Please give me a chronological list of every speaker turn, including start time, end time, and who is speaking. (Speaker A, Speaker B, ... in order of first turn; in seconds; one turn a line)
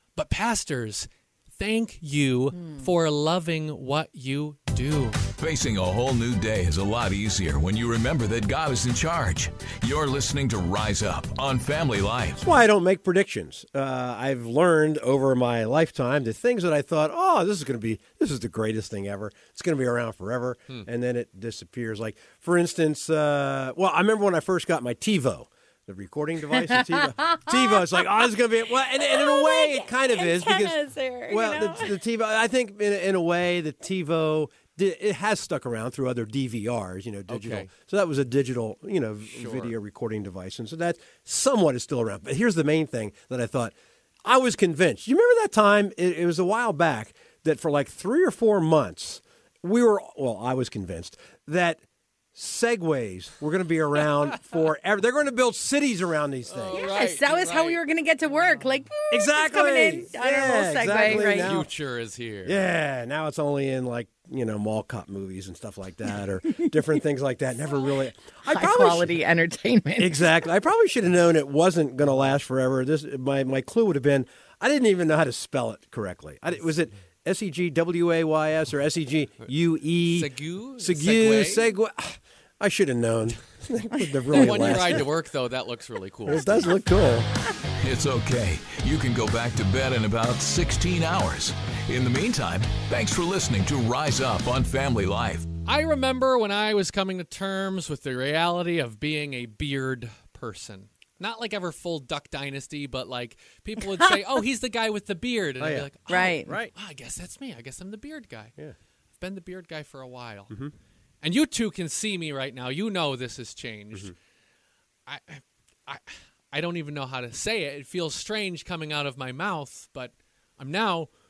Speaker A: 0.1-5.2
Speaker B: 5.4-12.4
Speaker C: 12.4-51.8
Speaker D: 29.0-32.0
Speaker A: 37.3-37.7
Speaker A: 39.3-39.7
Speaker C: 52.3-56.8
Speaker A: 56.5-58.7
Speaker D: 56.7-61.5
Speaker C: 59.1-61.7
Speaker A: 61.0-62.6
Speaker C: 62.4-69.1
Speaker D: 68.4-70.3
Speaker C: 70.0-85.0
Speaker A: 80.1-81.7
Speaker A: 84.3-86.5
Speaker C: 86.2-87.3
Speaker B: 87.8-95.5
Speaker A: 95.6-108.5
Speaker C: 105.6-106.7
Speaker D: 106.1-106.5
Speaker A: 109.2-110.5
Speaker A: 111.2-114.1
Speaker A: 115.0-121.1